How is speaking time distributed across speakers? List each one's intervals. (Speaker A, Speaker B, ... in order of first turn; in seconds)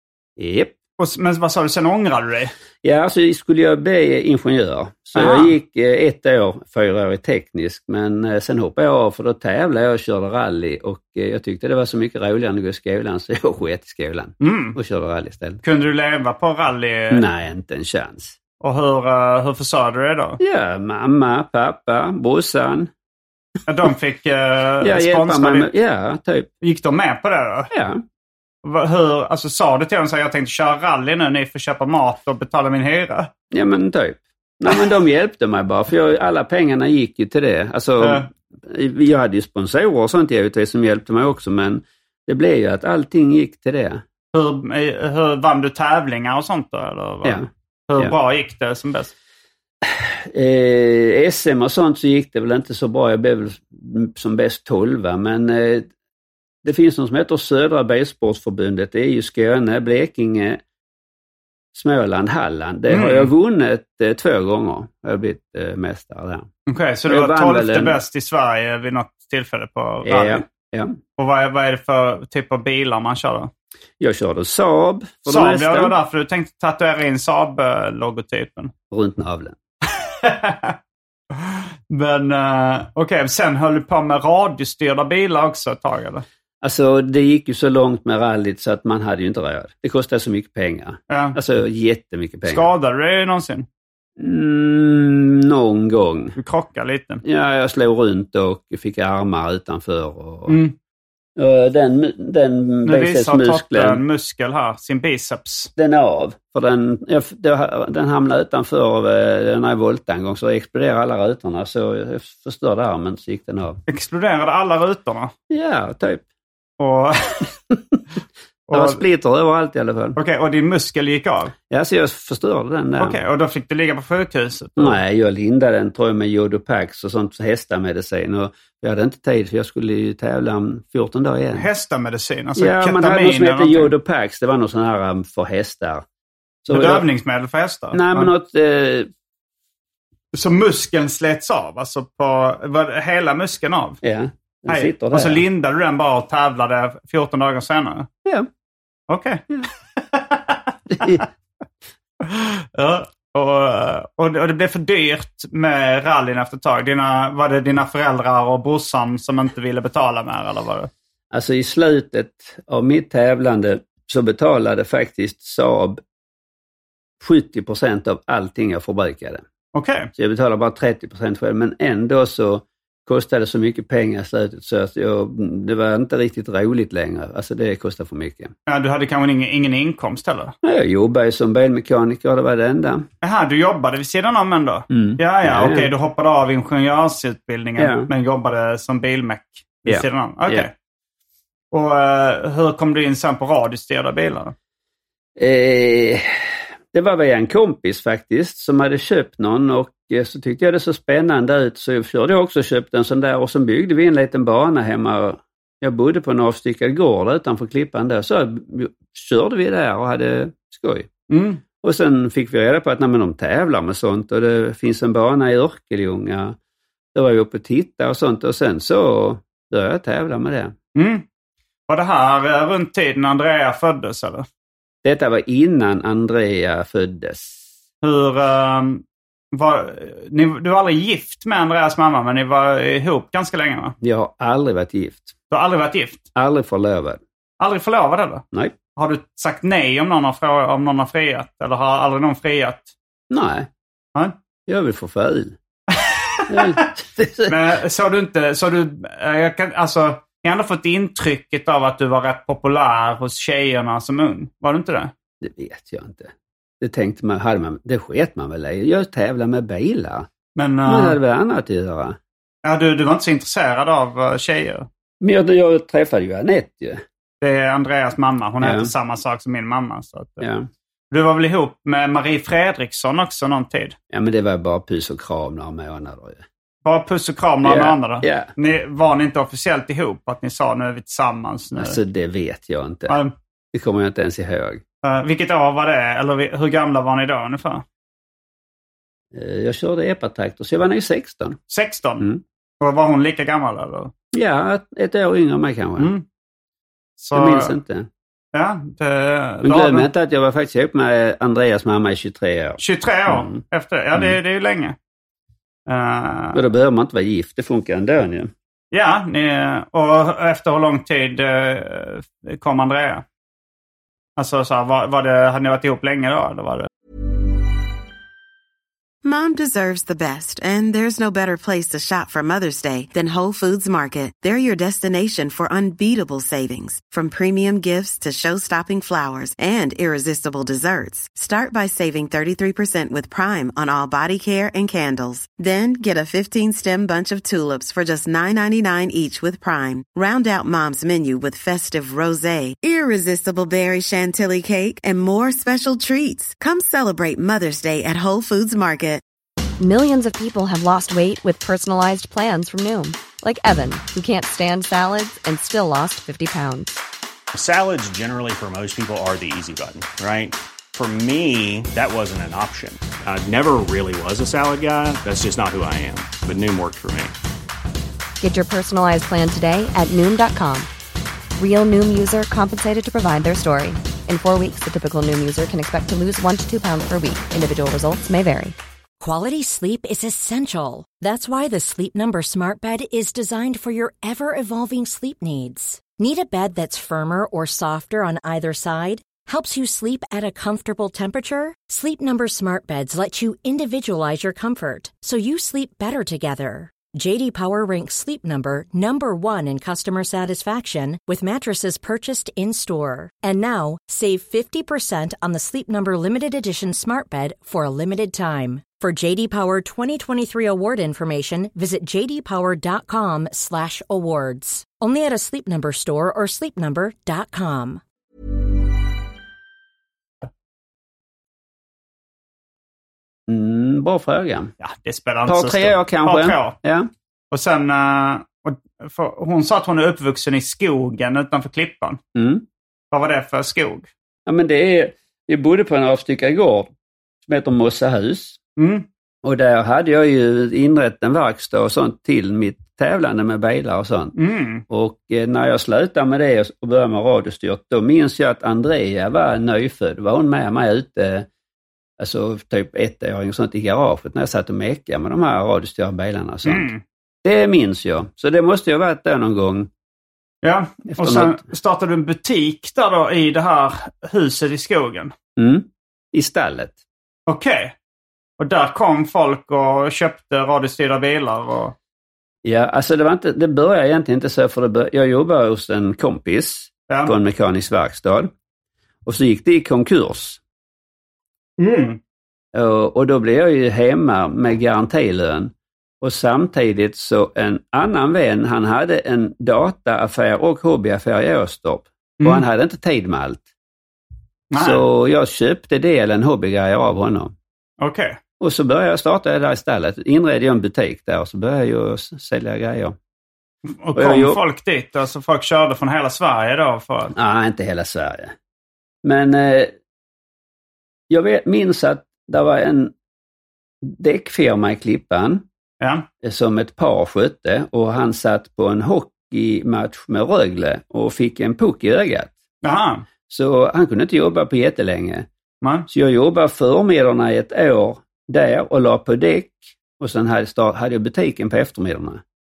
Speaker A: 0.4-0.8, 2.8-15.6, 17.1-18.4, 20.4-22.9, 24.8-26.5, 27.7-28.0, 33.5-44.0, 47.2-48.1, 49.8-55.9, 56.6-60.6, 61.7-66.5, 67.1-68.0, 70.0-71.0, 74.0-76.0, 78.9-79.6, 86.6-92.7, 94.2-96.4, 97.2-100.6, 101.4-104.0, 105.8-113.8, 115.5-116.2, 118.7-120.2, 121.7-123.2, 124.8-131.7, 132.6-136.1, 136.7-137.1, 137.9-139.1, 144.0-145.4, 150.9-151.2, 161.3-166.0, 167.2-169.4, 170.2-178.5, 180.6-183.1, 184.9-185.9, 187.8-188.1, 189.9-190.7, 195.4-211.1, 211.8-216.6, 217.2-220.8, 225.0-227.6, 234.0-235.3, 236.3-237.2, 243.3-243.7, 244.7-245.6, 246.5-247.6, 255.4-260.3, 260.9-262.2, 265.2-267.0, 268.6-268.9, 270.4-270.7, 274.1-276.4, 277.6-278.5, 281.8-283.2, 283.7-284.8, 289.3-291.6, 294.3-296.1, 297.3-298.1, 299.6-303.6, 306.5-308.5, 423.5-424.7, 425.5-427.1, 432.4-432.6, 434.5-436.9, 437.4-438.6, 439.4-444.4, 444.9-451.5, 452.2-456.9, 457.4-459.9, 461.1-461.6, 465.6-467.0, 472.6-478.5, 479.2-480.6, 482.7-493.7, 494.8-497.5, 498.6-503.2, 504.1-504.6, 507.4-508.6, 509.2-509.9, 511.3-513.1, 514.0-515.6, 516.4-522.6, 523.5-525.5, 526.1-532.4
Speaker B: 1.0-2.5, 5.2-5.5, 14.4-14.8, 15.6-17.2, 18.6-20.4, 23.7-25.7, 26.6-27.7, 28.6-33.3, 38.0-38.3, 44.3-49.1, 62.9-63.3, 66.7-70.5, 71.2-73.5, 75.3-78.7, 80.0-80.8, 81.3-86.2, 91.1-91.4, 92.5-93.7, 96.4-97.2, 100.5-100.8, 102.9-105.7, 113.9-115.3, 116.8-117.5, 118.7-119.0, 120.2-121.5, 123.0-125.0, 131.6-133.9, 136.7-138.3, 140.3-144.0, 144.7-148.1, 149.1-151.2, 152.2-160.9, 169.7-170.1, 178.7-180.5, 183.2-190.7, 191.7-194.6, 211.3-211.6, 220.9-221.2, 221.9-224.5, 228.0-233.9, 235.5-236.2, 237.6-238.4, 239.0-242.9, 245.9-246.8, 247.5-255.1, 260.6-261.2, 262.6-264.9, 267.4-270.4, 271.1-274.0, 276.9-282.0, 283.1-283.3, 285.0-287.8, 291.7-292.3, 292.8-294.1, 296.0-296.2, 297.2-297.7, 298.5-300.1, 302.8-305.0, 305.9-306.6, 308.9-313.2, 314.4-316.9, 424.8-426.8, 427.5-432.2, 433.1-434.1, 438.8-439.1, 444.4-444.8, 456.6-457.0, 460.6-465.3, 467.5-467.9, 468.6-471.9, 477.1-477.3, 481.8-482.2, 494.7-495.0, 498.0-498.4, 503.9-507.4, 516.0-516.3, 522.8-523.2, 525.8-526.1
Speaker C: 319.2-349.2
Speaker D: 349.8-357.0, 368.4-370.9, 371.6-378.8
Speaker E: 357.5-367.3
Speaker F: 379.2-418.0